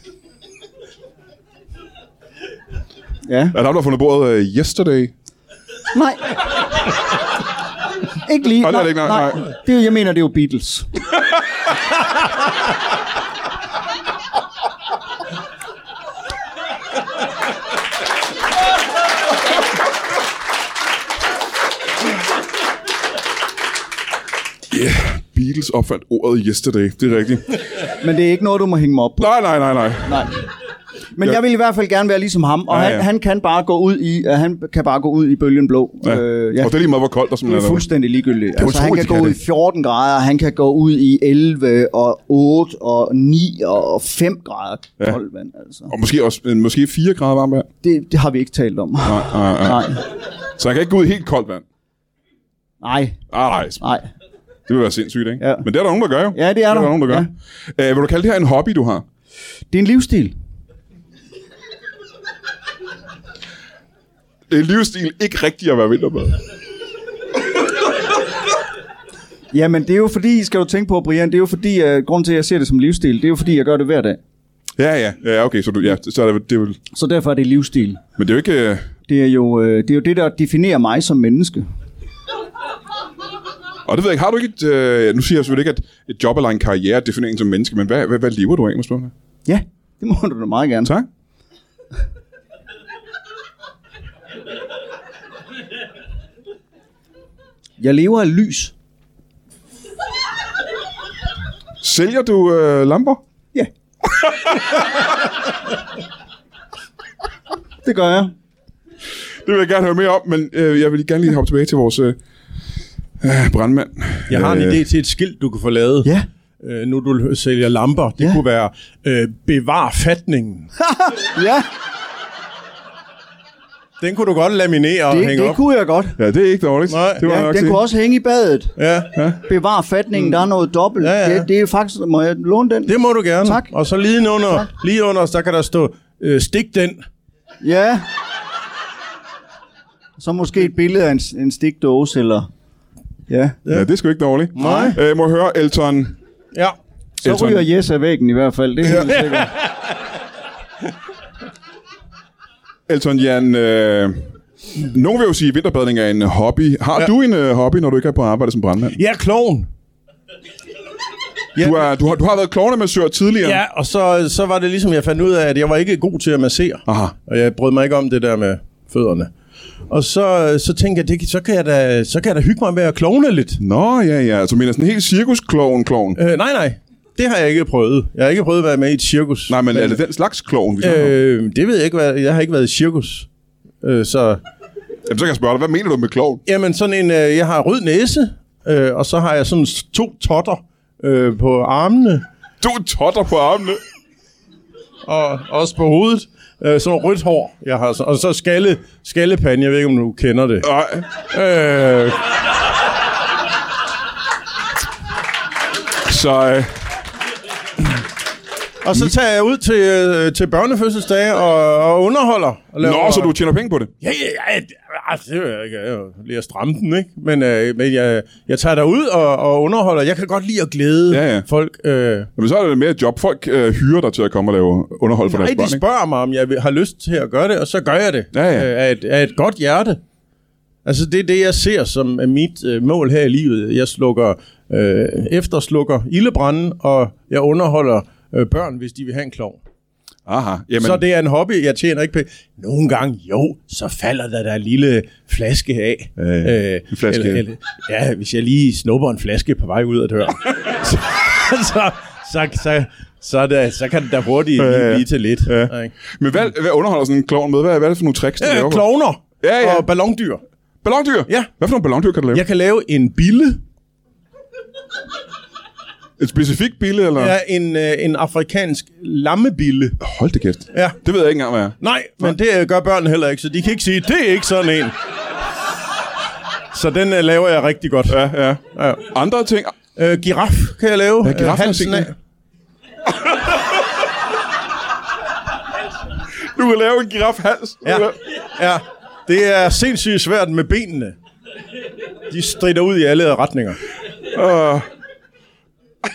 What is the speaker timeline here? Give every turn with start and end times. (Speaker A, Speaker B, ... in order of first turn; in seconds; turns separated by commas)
Speaker A: 3.3-3.6, Speaker B: 3.5-5.1, Speaker A: 5.9-6.3, Speaker A: 8.2-10.9, Speaker B: 8.6-9.5, Speaker B: 24.7-27.6, Speaker A: 28.0-29.3, Speaker B: 29.2-30.3, Speaker A: 30.1-30.3, Speaker A: 31.2-36.8, Speaker B: 32.7-33.1, Speaker B: 36.0-37.9, Speaker A: 37.4-45.9, Speaker B: 38.6-39.4, Speaker B: 45.9-47.7, Speaker A: 47.8-50.0, Speaker B: 49.0-50.0, Speaker B: 50.6-51.6, Speaker A: 52.8-53.2, Speaker B: 53.3-53.8, Speaker A: 53.8-54.1, Speaker B: 54.7-59.0, Speaker A: 55.4-55.7, Speaker A: 56.3-57.3, Speaker A: 59.7-60.3, Speaker B: 64.5-66.4, Speaker A: 69.5-74.2, Speaker B: 74.8-76.8, Speaker A: 76.9-78.0, Speaker B: 78.2-78.9, Speaker A: 79.1-81.7, Speaker B: 83.9-89.1, Speaker A: 89.5-90.9, Speaker A: 97.8-98.7, Speaker B: 101.8-103.2, Speaker A: 107.8-108.3, Speaker B: 109.4-112.2, Speaker B: 113.2-114.8, Speaker C: 114.3-120.7, Speaker A: 120.8-121.7, Speaker C: 124.0-125.6, Speaker A: 125.1-126.2, Speaker B: 126.2-127.8, Speaker C: 126.9-127.2, Speaker A: 127.2-128.8, Speaker C: 128.8-129.2, Speaker A: 129.4-133.7, Speaker C: 130.2-130.4, Speaker C: 131.0-131.5, Speaker C: 132.9-137.0, Speaker A: 137.6-138.1, Speaker A: 140.2-142.5, Speaker A: 143.3-143.6, Speaker B: 143.7-146.2, Speaker C: 144.6-145.0, Speaker A: 144.6-144.9, Speaker A: 147.2-149.5, Speaker B: 147.2-147.6, Speaker C: 148.9-150.1, Speaker B: 152.9-159.0, Speaker C: 158.9-159.7, Speaker C: 161.6-161.8, Speaker B: 161.6-163.6, Speaker C: 163.4-169.3, Speaker B: 166.9-167.2, Speaker C: 169.9-173.6, Speaker B: 173.6-176.2, Speaker C: 176.2-180.0, Speaker B: 179.5-181.1, Speaker C: 180.8-183.3, Speaker C: 183.8-184.4, Speaker B: 185.1-186.4, Speaker C: 186.5-192.2, Speaker B: 192.6-193.8, Speaker C: 195.1-202.4, Speaker B: 200.6-201.1, Speaker B: 206.1-206.8, Speaker C: 208.8-213.3, Speaker B: 212.8-213.9, Speaker C: 214.0-222.3, Speaker B: 221.1-221.5, Speaker B: 222.4-225.8, Speaker C: 225.2-230.0, Speaker B: 228.3-228.7, Speaker C: 230.8-239.6, Speaker B: 240.3-241.0, Speaker C: 240.8-255.9, Speaker B: 246.2-247.4, Speaker B: 254.6-258.9, Speaker C: 258.4-260.4, Speaker B: 259.4-259.9, Speaker B: 260.8-262.4, Speaker C: 262.3-263.6, Speaker B: 266.2-267.4, Speaker C: 267.2-270.0, Speaker B: 270.0-272.3, Speaker C: 270.7-271.0, Speaker C: 271.8-274.9, Speaker C: 276.7-279.1, Speaker B: 278.1-279.8, Speaker C: 280.0-282.1, Speaker B: 281.2-282.1, Speaker B: 286.4-288.2, Speaker C: 287.9-291.2, Speaker C: 292.3-293.8, Speaker B: 294.3-294.9